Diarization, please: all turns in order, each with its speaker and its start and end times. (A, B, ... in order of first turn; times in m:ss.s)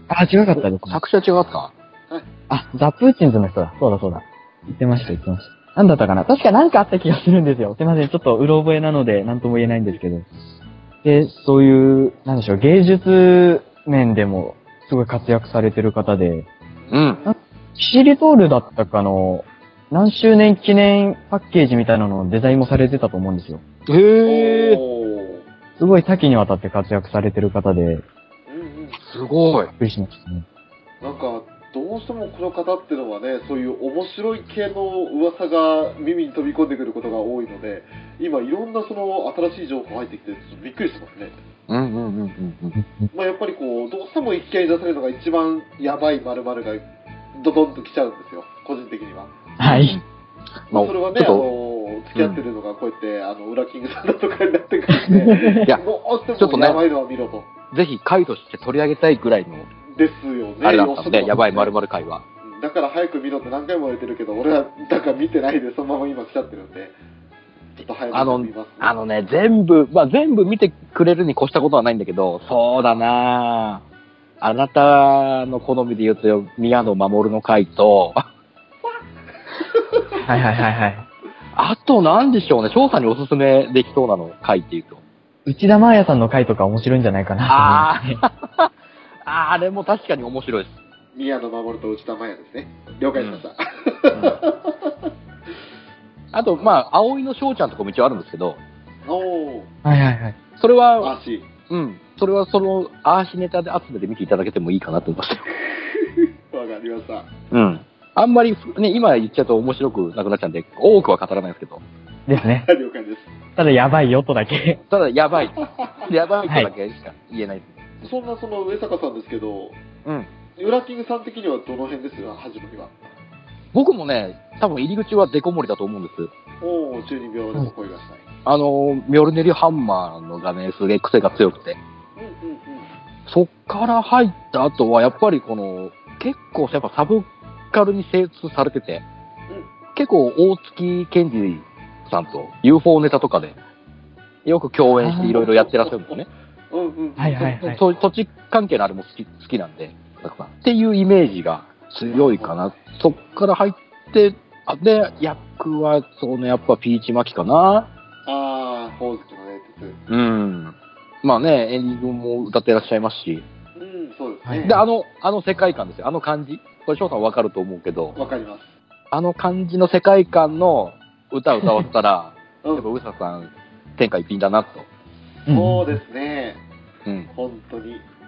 0:00.1-0:01.0 A
0:00.6-0:01.7 B
0:02.5-0:10.2 A
0:11.0-0:16.5 A
0:16.8-0:17.4 C
0:16.9-0:17.2 B
0:17.2-0:23.6 A
0:23.9-0:24.8 B
0:24.2-0:25.4 C
0:25.8-0:28.0 A
0:28.5-0:29.0 C
0:29.0-0:29.7 B
0:29.8-0:30.4 A
0:31.0-0:41.4 C
0:41.7-0:42.8 B
0:42.8-0:43.1 A
0:43.1-0:49.4 C
0:49.6-0:50.0 A
0:49.6-0:50.0 B
0:50.7-0:51.4 B
0:50.7-0:57.5 C
0:52.2-0:52.4 B
0:55.0-0:55.6 A
0:56.4-0:56.8 B
0:57.7-0:59.7 B
0:59.9-1:01.7 C
1:00.6-1:02.2 B
1:02.4-1:06.9 C
1:07.8-1:08.9 C
1:08.1-1:13.8 B
1:14.4-1:18.2 B
1:19.7-1:20.2 C
1:20.2-1:21.1 A
1:21.5-1:25.0 B
1:25.4-1:28.2 A
1:27.5-1:28.7 B
1:29.2-1:30.7 B
1:31.1-1:35.1 C
1:33.2-1:33.4 B
1:34.1-1:34.4 B
1:36.3-1:38.6 B
1:39.0-1:39.7 C
1:39.8-1:40.3 A
1:40.6-1:41.1 B
1:41.0-1:41.5 C
1:41.7-1:45.4 B
1:45.8-1:47.3 C
1:47.5-1:51.8 B
1:52.3-1:52.7 A
1:52.3-1:53.3 C
1:53.6-1:54.8 A
1:54.9-1:57.9 B
1:55.5-1:56.1 C
1:58.0-1:59.8 C
2:00.0-2:00.3 B
2:00.6-2:03.1 C
2:03.7-2:06.3 B
2:06.6-2:08.2 C
2:08.4-2:11.8 B
2:12.2-2:12.9 C
2:13.3-2:19.0 B
2:19.9-2:23.6 B
2:24.4-2:26.3 B
2:25.0-2:25.3 A
2:25.2-2:26.2 C
2:26.7-2:27.5 C
2:27.2-2:27.8 A
2:27.4-2:37.9 B
2:32.1-2:33.5 C
2:38.2-2:40.0 C
2:40.1-2:43.4 B
2:43.8-2:44.8 C
2:44.4-2:44.8 A
2:44.6-2:48.2 B
2:48.1-2:48.7 C
2:49.1-2:54.9 B
2:55.5-2:56.0 A
2:55.5-2:56.6 C
2:57.3-2:58.0 C